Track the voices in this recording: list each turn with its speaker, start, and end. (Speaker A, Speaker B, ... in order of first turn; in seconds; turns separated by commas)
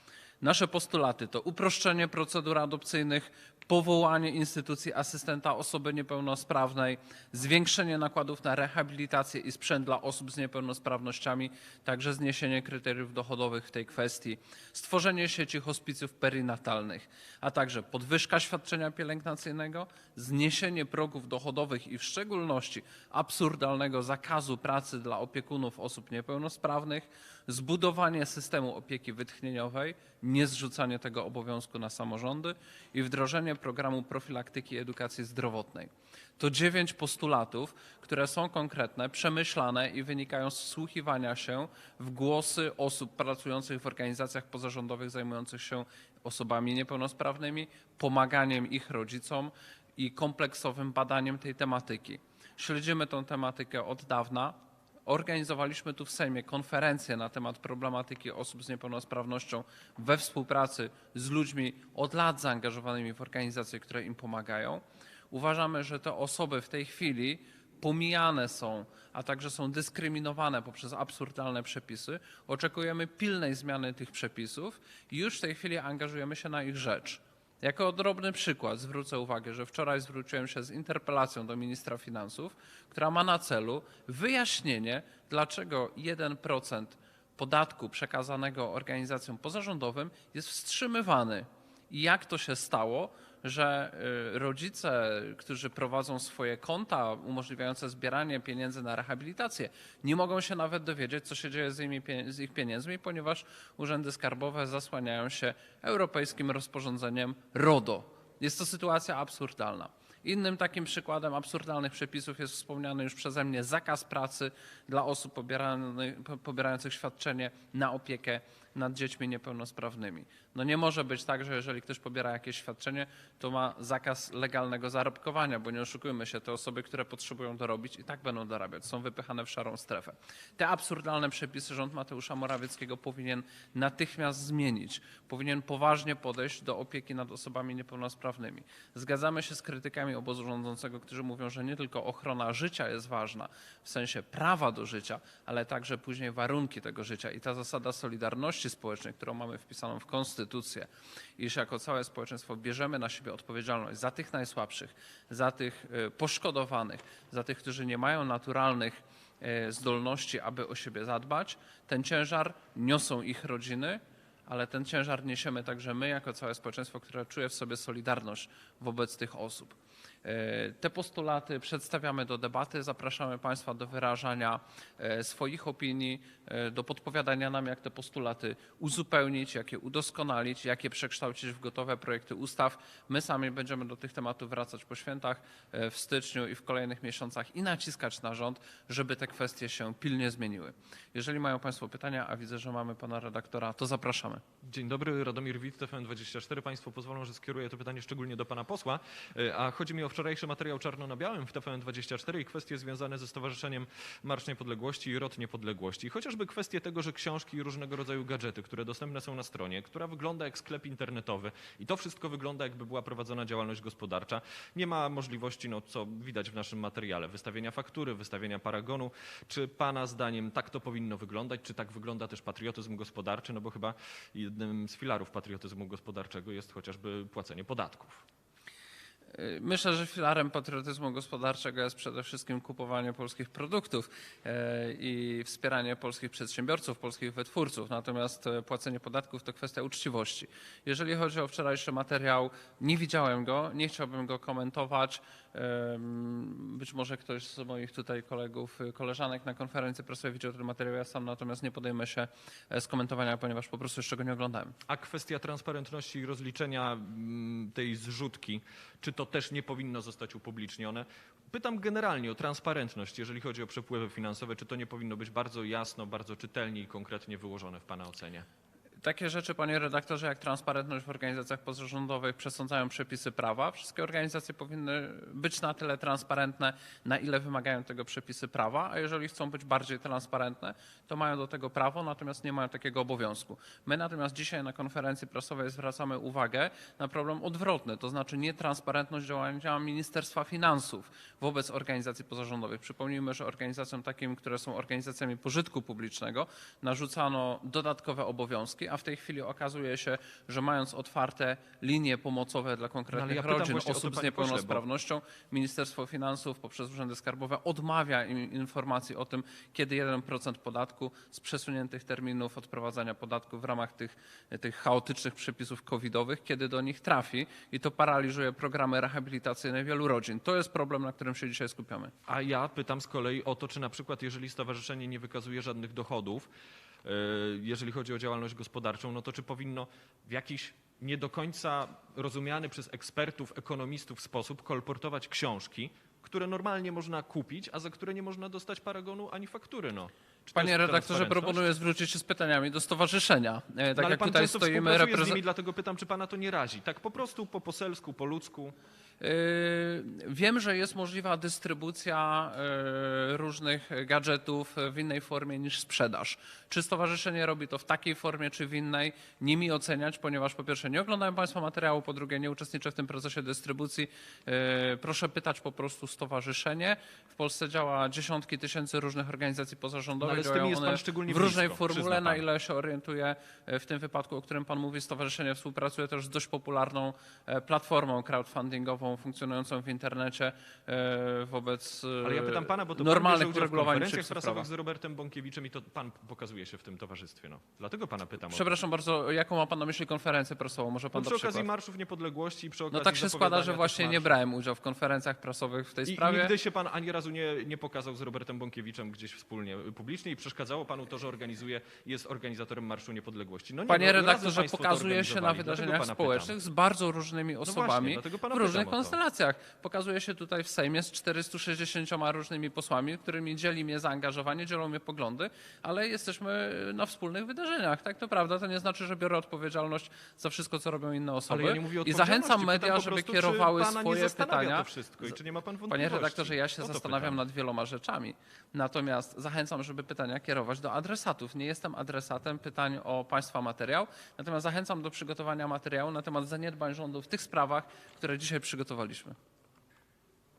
Speaker A: 0.4-194.4, Speaker B: 194.7-228.2, Speaker A: 229.3-254.8, Speaker B: 254.9-268.5, Speaker A: 269.0-322.1, Speaker B: 303.1-304.8, Speaker B: 322.3-326.5, Speaker B: 327.1-341.7, Speaker A: 340.6-345.4, Speaker B: 344.0-348.8, Speaker A: 349.2-384.7, Speaker B: 370.2-372.4, Speaker B: 382.2-388.7, Speaker A: 388.5-391.7, Speaker B: 391.1-394.4, Speaker A: 392.9-396.5, Speaker B: 396.1-406.6, Speaker A: 403.9-425.4, Speaker B: 407.7-409.2, Speaker B: 421.5-427.4, Speaker A: 425.9-439.4